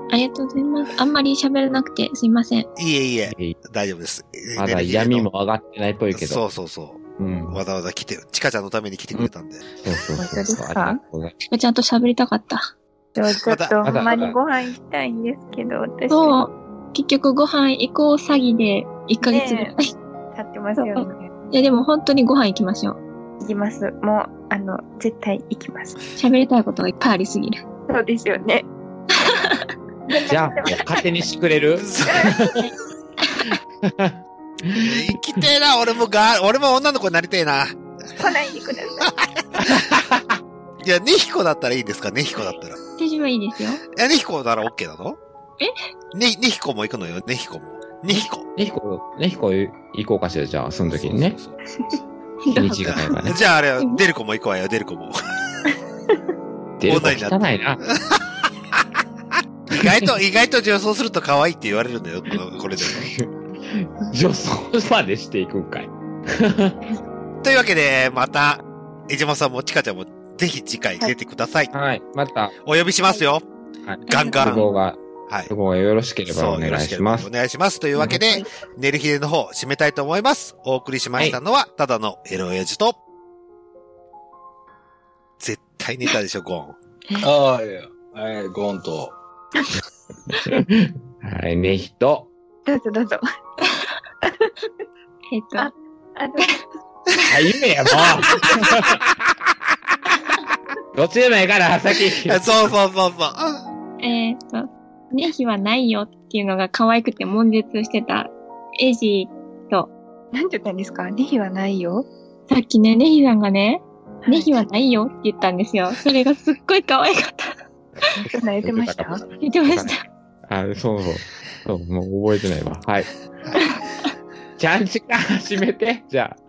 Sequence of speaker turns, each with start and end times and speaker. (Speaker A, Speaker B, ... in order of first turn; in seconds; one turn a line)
Speaker A: 0.1-2.7
Speaker B: 2.8-5.3
Speaker C: 3.3-3.6
Speaker C: 4.5-6.4
Speaker B: 6.1-9.8
Speaker C: 7.2-7.6
Speaker C: 9.8-11.3
Speaker D: 10.2-11.0
Speaker A: 11.5-12.7
Speaker D: 13.2-16.4
Speaker B: 13.4-13.8
Speaker C: 13.8-14.4
Speaker A: 16.1-19.7
Speaker D: 19.2-19.7
Speaker D: 20.3-21.3
Speaker A: 20.8-23.0
Speaker D: 23.4-25.9
Speaker A: 26.2-27.6
Speaker D: 27.9-28.7
Speaker A: 29.1-29.6
Speaker D: 30.1-31.0
Speaker C: 30.3-32.6
Speaker B: 31.8-32.3
Speaker D: 32.1-32.7
Speaker C: 33.5-35.5
Speaker B: 34.8-37.8
Speaker D: 38.2-39.1
Speaker B: 39.0-39.9
Speaker C: 39.6-40.4
Speaker B: 40.8-42.8
Speaker A: 43.0-43.8
Speaker B: 44.0-45.2
Speaker B: 46.1-48.5
Speaker C: 48.1-51.4
Speaker B: 50.9-51.6
Speaker D: 52.5-53.2
Speaker C: 52.5-53.4
Speaker B: 53.2-55.2
Speaker C: 56.8-57.8
Speaker B: 56.9-57.4
Speaker B: 58.0-58.2
Speaker B: 59.7-63.1
Speaker C: 59.8-60.1
Speaker C: 62.8-66.8
Speaker B: 67.4-71.7
Speaker C: 71.7-72.5
Speaker B: 72.7-73.5
Speaker C: 73.9-77.3
Speaker B: 74.1-74.7
Speaker D: 74.1-74.7
Speaker B: 76.3-83.0
Speaker D: 78.0-78.4
Speaker B: 85.4-86.8
Speaker E: 87.2-89.2
Speaker C: 90.4-92.3
Speaker D: 92.7-93.2
Speaker D: 94.2-94.5
Speaker A: 95.3-95.7
Speaker D: 95.6-96.5
Speaker C: 97.2-99.0
Speaker C: 100.9-102.5
Speaker B: 102.2-103.6
Speaker A: 104.0-109.9
Speaker D: 110.3-112.1
Speaker A: 112.5-117.5
Speaker D: 114.2-114.5
Speaker D: 118.2-119.2
Speaker C: 118.6-119.9
Speaker A: 119.4-120.0
Speaker C: 120.5-123.1
Speaker C: 124.6-126.4